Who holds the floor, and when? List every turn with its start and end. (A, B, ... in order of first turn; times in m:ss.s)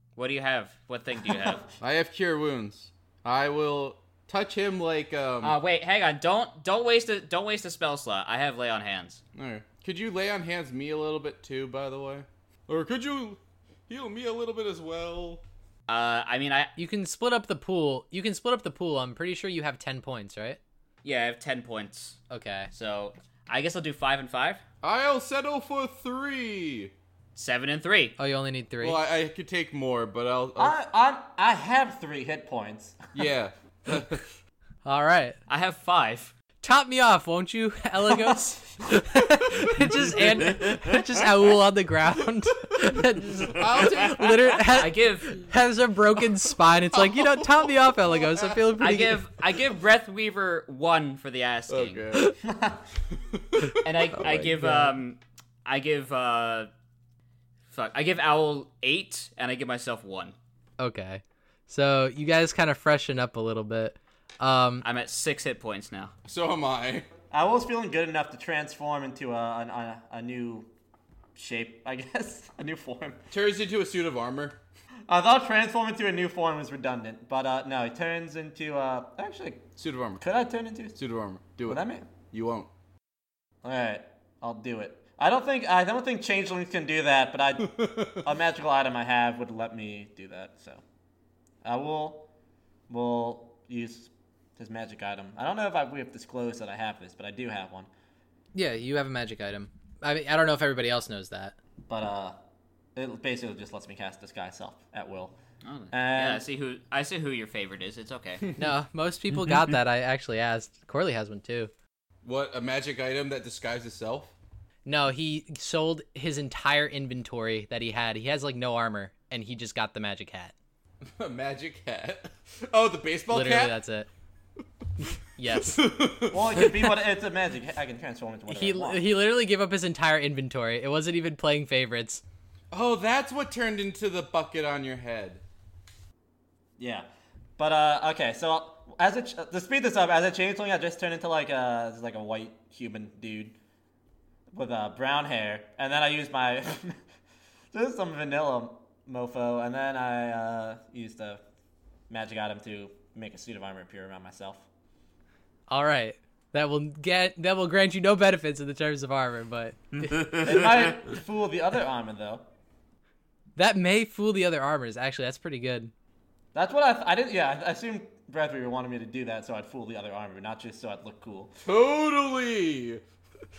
0:00.2-0:01.6 A
0:01.8-0:05.6 B
0:05.4-0:09.2 A
0:09.3-0:15.4 B
0:15.9-0:16.7 A
0:16.8-0:20.6 C
0:21.0-0:22.2 A
0:22.3-0:22.7 C
0:22.7-0:24.6 A
0:24.8-0:26.9 B
0:27.3-0:28.2 A
0:28.2-0:29.0 C
0:28.8-0:30.7 B
0:30.6-0:33.1 D
0:33.1-0:34.2 B
0:34.8-0:35.4 C
0:35.5-0:36.3 A
0:36.6-0:49.2 C
0:40.0-0:40.4 B
0:43.4-0:44.6 B
0:44.6-0:45.4 A
0:47.0-0:48.6 B
0:48.8-0:52.0 A
0:51.7-0:52.4 B
0:52.4-0:52.8 D
0:53.3-0:54.5 B
0:53.8-0:56.7 A
0:54.6-0:54.9 C
0:57.7-1:00.4 A
1:00.8-1:04.8 C
1:04.8-1:06.1 A
1:06.2-1:07.1 B
1:07.3-1:10.7 D
1:11.4-1:13.2 D
1:13.3-1:14.6 B
1:15.1-1:21.0 D
1:19.8-1:20.2 B
1:21.0-1:22.7 B
1:21.6-1:22.1 D
1:23.6-1:30.8 D
1:27.6-1:28.3 B
1:31.6-1:32.3 D
1:32.9-1:37.9 D
1:38.5-1:41.6 C
1:41.9-1:42.4 D
1:43.0-1:45.4 D
1:45.6-1:48.4 A
1:45.9-1:46.4 D
1:48.6-1:51.7 C
1:52.2-1:54.3 B
1:54.8-2:00.5 C
2:01.2-2:03.7 B
2:03.3-2:04.1 C
2:05.0-2:05.8 C
2:05.5-2:06.7 B
2:06.3-2:09.0 D
2:08.5-2:12.2 C
2:12.7-2:15.4 B
2:16.8-2:23.6 D
2:24.5-2:27.0 D
2:27.7-2:31.4 D
2:32.1-2:34.6 D
2:35.7-2:40.5 C
2:40.4-2:42.4 D
2:43.6-2:45.9 C
2:46.5-2:51.5 D
2:51.6-2:53.0 B